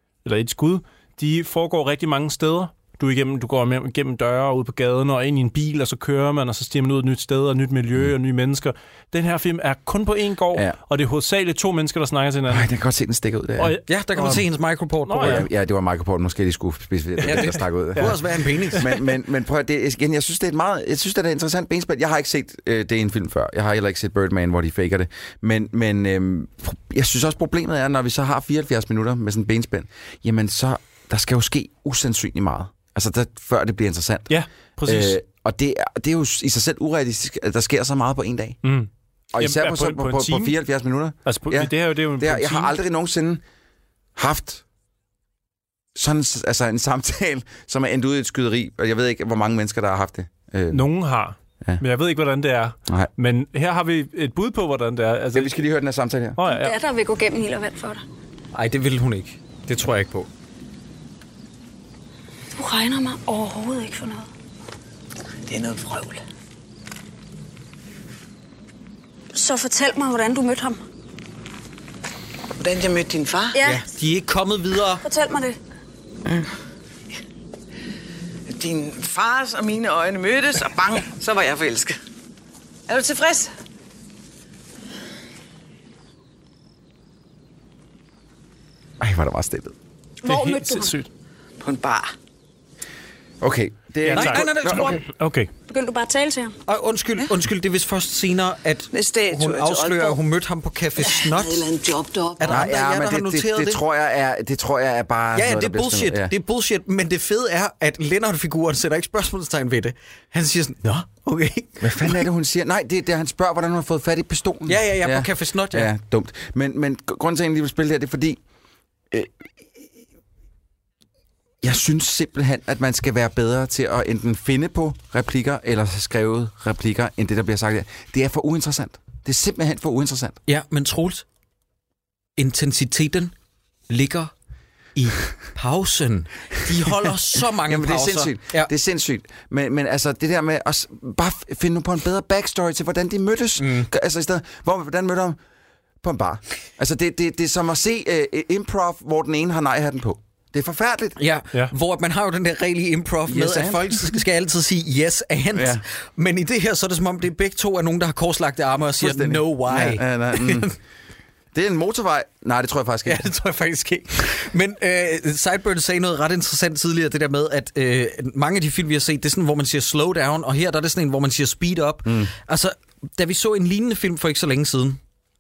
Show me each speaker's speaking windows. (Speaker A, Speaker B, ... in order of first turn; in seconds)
Speaker A: 0.2-12.7, 13.6-14.4, 15.1-15.5, 17.2-18.2, 34.3-35.2, 38.6-40.6, 41.3-42.8, 50.7-55.6, 56.4-56.8, 90.2-91.1, 94.0-95.5
Speaker B: 12.5-13.8, 15.2-18.1, 18.8-38.6, 39.3-43.4, 44.2-44.6, 46.0-50.8, 55.3-56.4, 89.0-89.7, 93.4-95.0, 102.5-106.3, 111.8-118.4, 119.1-119.8, 121.6-130.4, 137.5-145.4, 146.0-151.2, 153.3-154.2, 155.6-155.8, 159.0-160.7, 161.5-163.3, 172.1-172.3
Speaker C: 13.9-15.4, 17.2-19.0, 58.5-60.3, 73.6-75.0, 94.1-95.0, 96.7-101.7, 102.4-103.8, 105.3-112.2, 114.7-115.9, 130.5-131.3, 132.4-133.3, 133.9-134.3, 134.9-138.7, 143.6-143.9, 151.2-160.8, 163.1-175.0
Speaker D: 56.5-58.0, 62.5-64.3, 69.3-70.8, 73.5-73.8, 75.0-75.6, 90.2-91.0, 95.7-96.6
Speaker E: 65.5-66.2, 72.6-73.6, 78.5-82.0, 82.9-83.5, 91.6-92.1, 98.9-100.2, 101.0-102.7